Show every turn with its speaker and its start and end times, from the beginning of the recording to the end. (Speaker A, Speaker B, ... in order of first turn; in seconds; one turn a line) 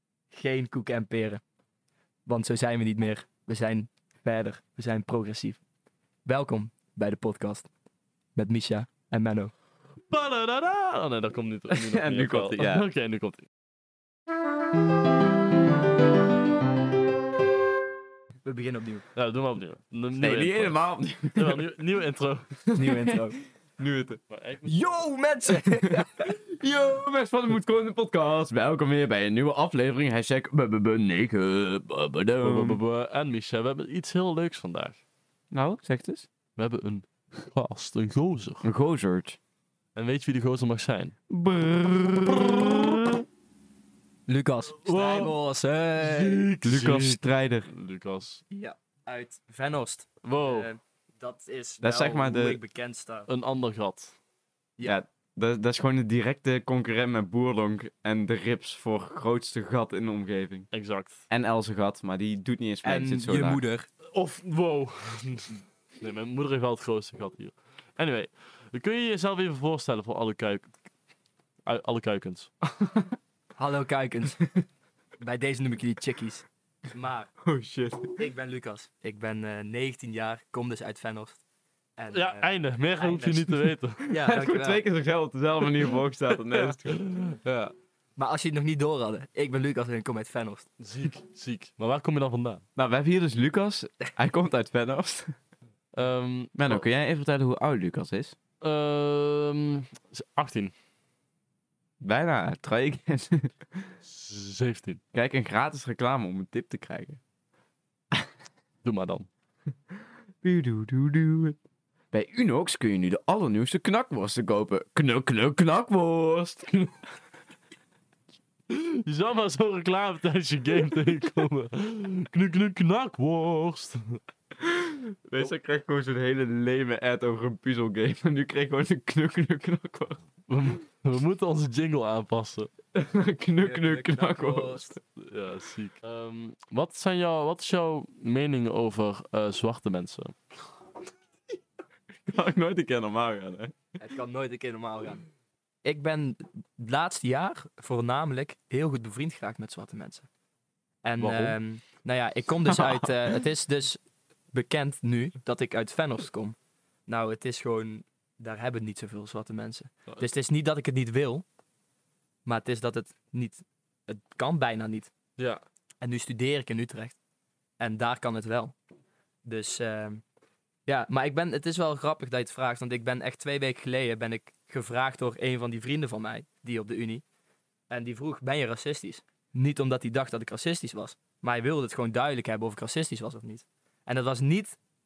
Speaker A: 0.3-1.4
Speaker A: 2.3-5.6
Speaker A: 6.3-7.7
Speaker A: 8.4-9.5
Speaker B: 10.1-13.5
Speaker C: 11.7-12.8
Speaker A: 18.4-19.1
Speaker B: 19.1-20.8
Speaker C: 20.2-21.7
Speaker B: 21.3-22.6
Speaker C: 22.6-23.2
Speaker A: 22.8-23.4
Speaker C: 23.8-24.2
Speaker B: 24.3-25.0
Speaker A: 24.6-26.3
Speaker C: 25.8-32.8
Speaker B: 32.4-35.0
Speaker C: 35.5-36.3
Speaker B: 36.6-38.6
Speaker C: 38.6-39.4
Speaker B: 40.0-41.1
Speaker C: 41.3-43.2
Speaker A: 44.3-46.4
Speaker B: 44.8-45.4
Speaker B: 46.0-48.4
Speaker C: 46.6-47.7
Speaker A: 48.5-53.3
Speaker B: 50.2-50.7
Speaker C: 51.8-52.6
Speaker B: 53.3-54.1
Speaker C: 54.8-60.7
Speaker B: 60.7-61.2
Speaker C: 61.3-63.6
Speaker A: 62.8-63.9
Speaker B: 64.1-70.7
Speaker B: 71.7-72.5
Speaker C: 72.7-73.1
Speaker A: 73.6-74.4
Speaker A: 75.2-77.3
Speaker C: 77.4-78.2
Speaker A: 78.2-81.4
Speaker A: 82.0-84.8
Speaker B: 82.1-84.0
Speaker C: 84.1-87.7
Speaker B: 86.9-87.3
Speaker A: 88.2-90.7
Speaker B: 90.8-92.6
Speaker C: 92.8-95.3
Speaker B: 95.9-96.8
Speaker C: 96.6-98.4
Speaker B: 98.6-100.7
Speaker C: 102.0-103.9
Speaker B: 104.0-105.0
Speaker C: 105.1-107.2
Speaker B: 108.8-109.3
Speaker C: 110.4-111.6
Speaker C: 112.1-117.0
Speaker B: 118.7-124.2
Speaker C: 124.6-130.2
Speaker B: 130.5-132.7
Speaker C: 132.9-135.0
Speaker A: 133.6-134.9
Speaker B: 135.2-140.4
Speaker C: 142.3-143.7
Speaker A: 144.0-145.2
Speaker A: 145.8-150.3
Speaker A: 151.0-154.0
Speaker B: 151.2-151.6
Speaker A: 154.5-156.6
Speaker A: 157.1-161.4
Speaker A: 162.5-165.1
Speaker A: 166.0-167.2
Speaker A: 167.8-168.8
Speaker A: 169.4-170.2
Speaker A: 170.9-177.2
Speaker A: 177.9-184.8